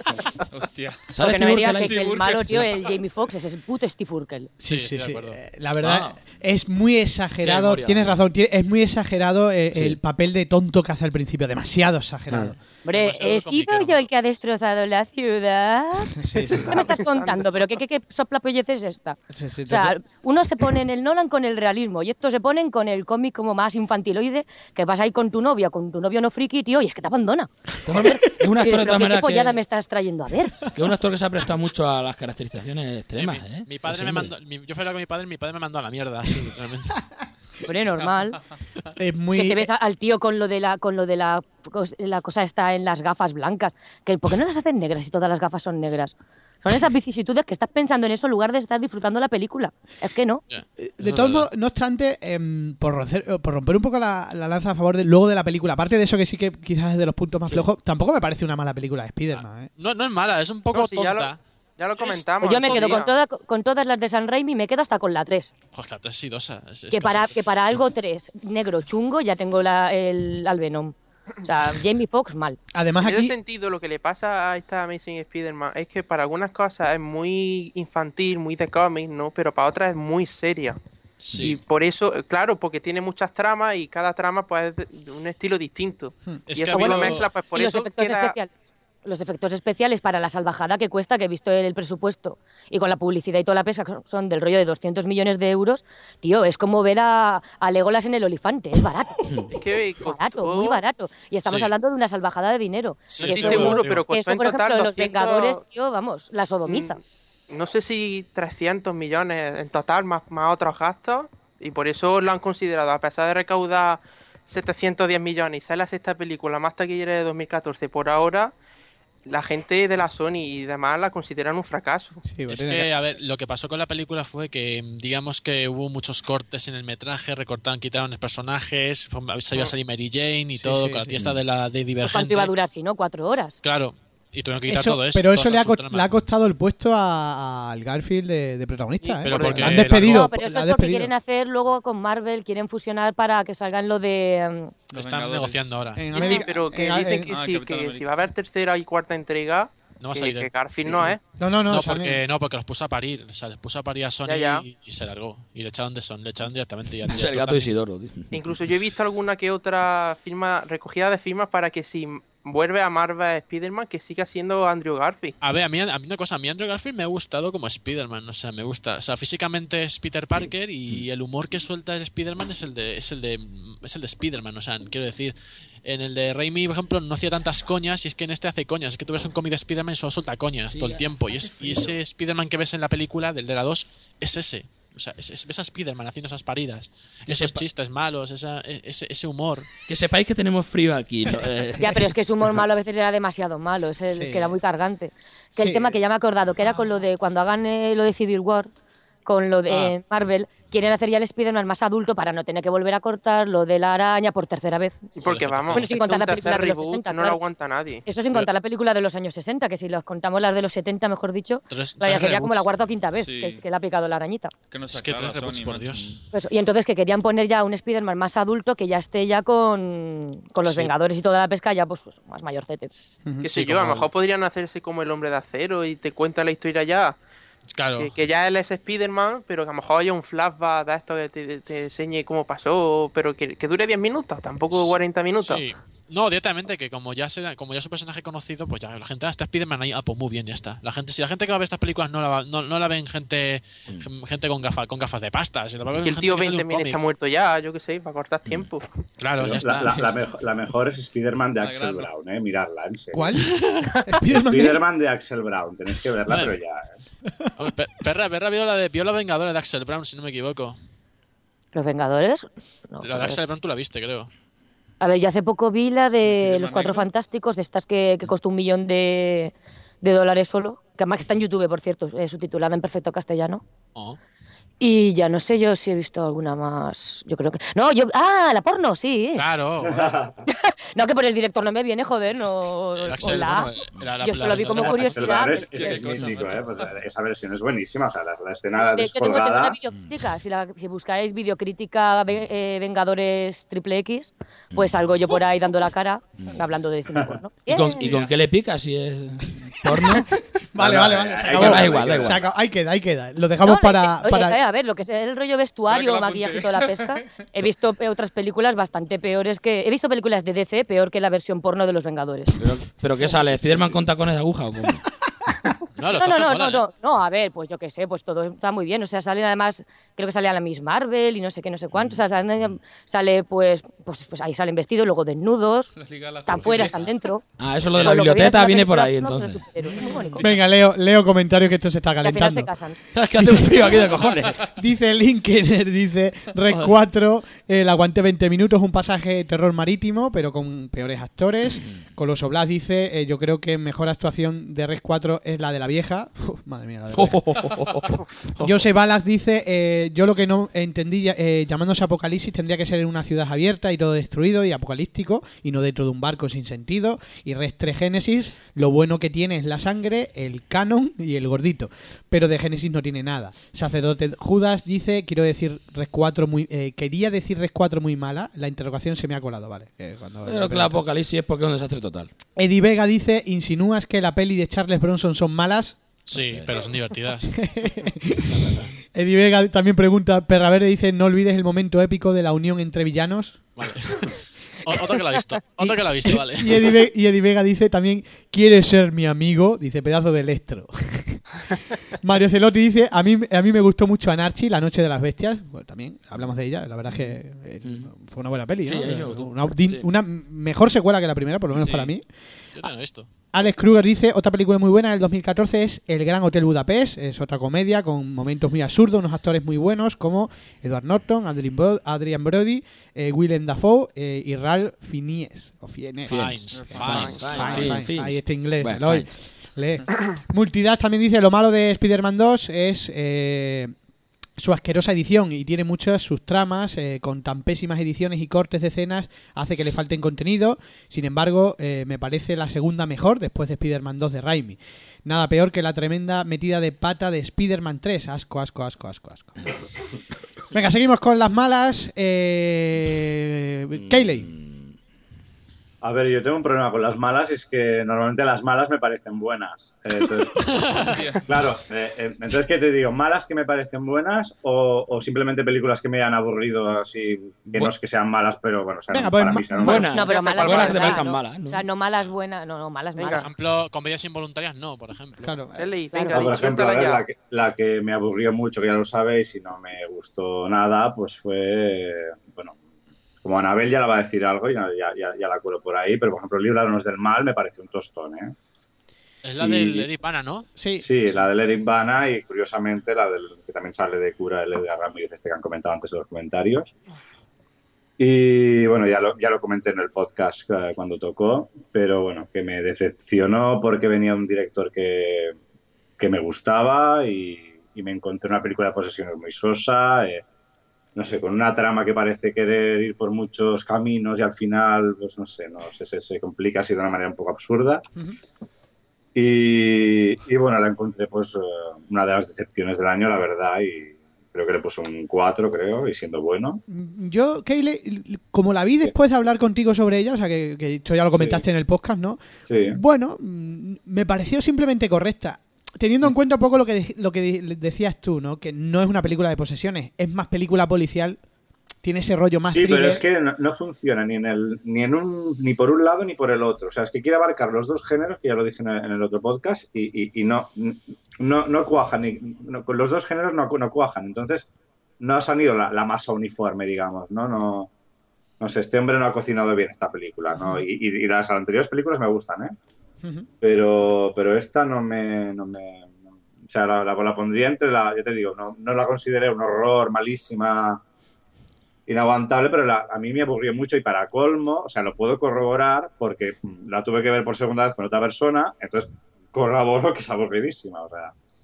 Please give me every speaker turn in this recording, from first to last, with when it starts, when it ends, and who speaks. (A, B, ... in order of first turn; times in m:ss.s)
0:00.5-0:02.6 A
0:01.1-0:02.6 B
0:01.2-0:04.5 C
0:04.6-0:12.6 D
0:04.7-0:05.4 E
0:05.8-0:06.3 B
0:07.4-0:08.2 B
0:12.8-0:30.6 C
0:12.9-0:14.1 E
0:16.1-0:17.0 D
0:16.7-0:17.6 F
0:19.3-0:20.0 D
0:27.8-0:29.6 B
0:27.9-0:28.5 D
0:30.7-0:34.3 B
0:33.1-0:37.0 E
0:37.6-0:38.4 C
0:39.0-0:39.7 D
0:39.3-0:50.4 C
0:50.5-0:51.5 E
0:50.8-0:59.7 D
0:59.3-1:01.4 E
1:00.7-1:03.1 F
1:02.0-1:02.9 E
1:02.4-1:05.5 C
1:05.7-1:07.3 E
1:06.9-1:12.6 C
1:12.7-1:13.4 D
1:13.0-1:20.8 F
1:21.2-1:21.6 E
1:21.4-1:28.4 F
1:26.5-1:27.3 E
1:26.8-1:28.5 C
1:29.0-1:39.2 C
1:39.2-1:39.5 B
1:39.5-1:40.8 F
1:40.0-1:47.0 C
1:41.4-1:41.7 E
1:43.1-1:44.0 E
1:43.2-1:45.6 F
1:46.6-1:58.5 F
1:59.2-2:02.2 F
2:02.2-2:02.9 D
2:02.5-2:12.5 E
2:10.6-2:11.2 D
2:12.0-2:13.6 C
2:13.6-2:16.1 E
2:14.7-2:21.1 D
2:19.0-2:19.9 F
2:19.2-2:20.3 E
2:19.8-2:24.7 C
2:24.9-2:26.4 E
2:24.9-2:25.6 A
2:26.0-2:27.3 D
2:26.1-2:31.2 F
2:27.3-2:28.1 A
2:30.0-2:31.2 E
2:31.4-2:32.2 D
2:31.7-2:37.7 E
2:34.2-2:34.6 F
2:37.0-2:38.6 B
2:38.3-2:45.4 F
2:45.4-3:09.7 E
3:00.7-3:02.0 B
3:07.3-3:07.6 B
3:09.9-3:12.1 B
3:11.8-3:18.7 C
3:14.1-3:14.6 D
3:15.6-3:16.0 D
3:19.2-3:25.1 C
3:25.2-3:28.0 F
3:25.2-3:26.0 E
3:25.7-3:27.4 C
3:28.0-3:34.5 C
3:31.7-3:32.7 E
3:33.2-3:33.6 A
3:34.7-3:36.0 A
3:34.9-3:36.1 E
3:36.3-3:42.9 C
3:40.6-3:40.9 E
3:43.4-3:47.2 F
3:43.6-3:44.0 E
3:47.8-3:48.1 E
3:48.0-3:55.6 F
3:54.7-4:07.0 E
4:06.0-4:08.9 F
4:09.2-4:09.9 E
4:09.4-4:13.3 G
4:11.6-4:12.1 A
4:13.1-4:14.8 D
4:14.3-4:16.9 G
4:17.6-4:20.8 E
4:21.7-4:23.4 C
4:23.0-4:24.3 E
4:25.0-4:33.6 C
4:26.2-4:27.1 A
4:34.8-4:39.4 C
4:39.3-4:40.1 E
4:39.8-4:40.4 G
4:40.5-4:46.1 C
4:43.0-4:45.5 E
4:44.8-4:49.8 G
4:45.2-4:46.8 A
4:48.7-4:58.1 C
4:54.7-4:55.1 B
4:57.1-4:57.4 G
4:57.7-5:00.3 B
4:58.0-4:58.3 A
4:59.8-5:04.6 D
5:00.8-5:02.5 G
5:01.0-5:02.4 B
5:03.6-5:12.6 C
5:05.9-5:07.4 A
5:12.6-5:15.0 B
5:16.0-5:16.8 E
5:16.1-5:25.9 C
5:21.9-5:22.2 B
5:26.0-5:27.2 A
5:26.4-5:30.4 C
5:26.6-5:26.9 B
5:27.6-5:29.7 B
5:29.9-5:30.6 A
5:30.4-5:32.7 D
5:32.2-5:33.0 C
5:33.1-5:34.7 B
5:33.4-5:33.9 D
5:34.6-5:47.8 D
5:47.1-5:48.8 B
5:48.6-6:11.0 D
6:10.5-6:12.3 B
6:12.6-6:16.0 D
6:16.3-6:17.6 E
6:16.3-6:16.8 B
6:17.5-6:24.2 D
6:23.8-6:27.0 E
6:25.8-6:31.4 D
6:32.2-6:42.2 D
6:37.2-6:38.1 B
6:38.8-6:40.0 B
6:41.8-6:42.1 A
6:42.7-6:43.3 E
6:43.5-7:03.9 D
6:56.3-6:59.3 B
6:56.3-6:58.0 E
6:56.7-6:57.9 A
7:04.6-7:19.5 D
7:20.7-7:24.5 D
7:24.0-7:24.9 B
7:26.0-7:40.1 G
7:30.7-7:31.1 E
7:31.0-7:31.4 A
7:39.1-7:40.1 D
7:39.8-7:41.8 B
7:40.1-7:43.5 C
7:40.2-7:41.2 F
7:43.2-7:43.5 F
7:43.3-7:45.5 E
7:45.4-7:45.9 D
7:45.8-7:47.2 F
7:46.1-7:46.4 C
7:46.3-7:52.8 G
7:53.4-7:58.6 G
7:59.4-8:00.7 E
7:59.6-8:00.1 G
8:00.8-8:01.0 D
8:01.0-8:06.9 G
8:08.2-8:15.6 G
8:16.2-8:20.4 G
8:21.2-8:28.0 G
8:29.3-8:36.8 G
8:36.9-8:51.4 D
8:41.3-8:41.6 G
8:42.7-8:43.0 G
8:52.0-8:53.2 D
8:52.6-9:04.7 G
9:05.2-9:07.9 G
9:08.6-9:12.7 G
9:10.5-9:10.8 D
9:13.2-9:13.5 D
9:13.6-9:21.0 G
9:22.1-9:31.3 G